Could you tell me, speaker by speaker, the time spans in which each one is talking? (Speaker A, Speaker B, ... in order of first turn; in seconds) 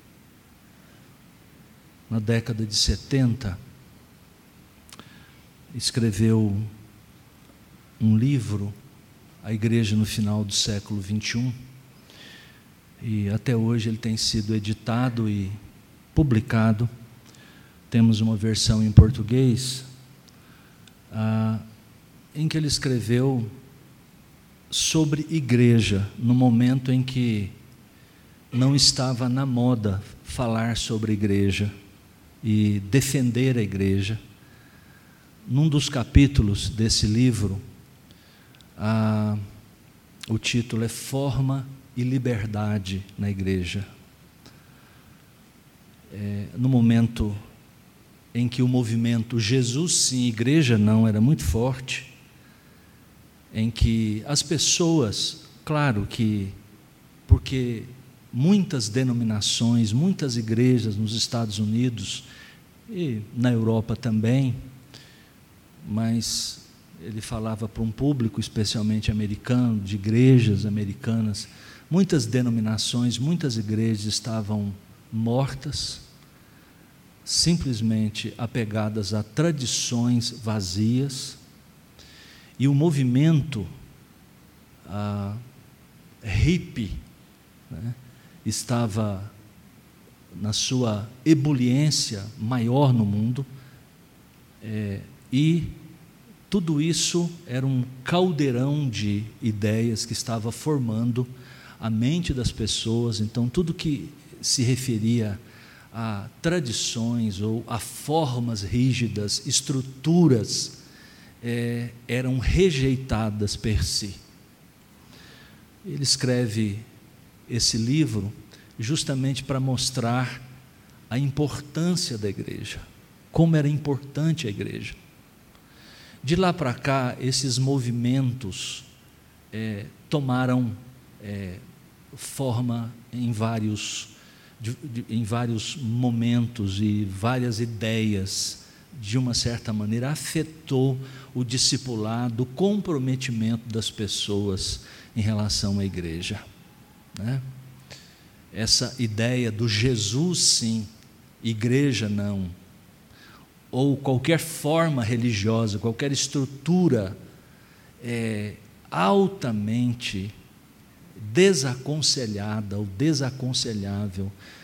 Speaker A: 2.1-3.6, 5.7-6.7, 8.0-8.8, 9.4-11.6, 13.0-15.6, 16.1-16.9, 17.9-19.9, 21.1-21.6, 22.3-23.5, 24.7-27.6, 28.5-31.7, 32.4-34.2, 35.5-37.6, 38.8-39.4, 40.3-43.9, 46.1-47.4, 48.3-52.1, 53.5-56.5, 57.3-62.3, 62.9-64.6, 65.8-76.1, 77.2-81.4, 82.6-83.7, 84.9-85.4, 86.2-87.0, 87.7-89.3, 90.3-93.5, 94.6-95.8, 96.5-101.3, 101.8-105.4, 105.9-110.8, 111.4-114.2, 115.8-116.8, 117.5-120.5, 121.1-125.0, 126.2-128.9, 129.5-146.4, 147.2-147.4, 148.5-150.9, 151.4-152.6, 153.7-157.2, 158.0-160.3, 161.2-164.3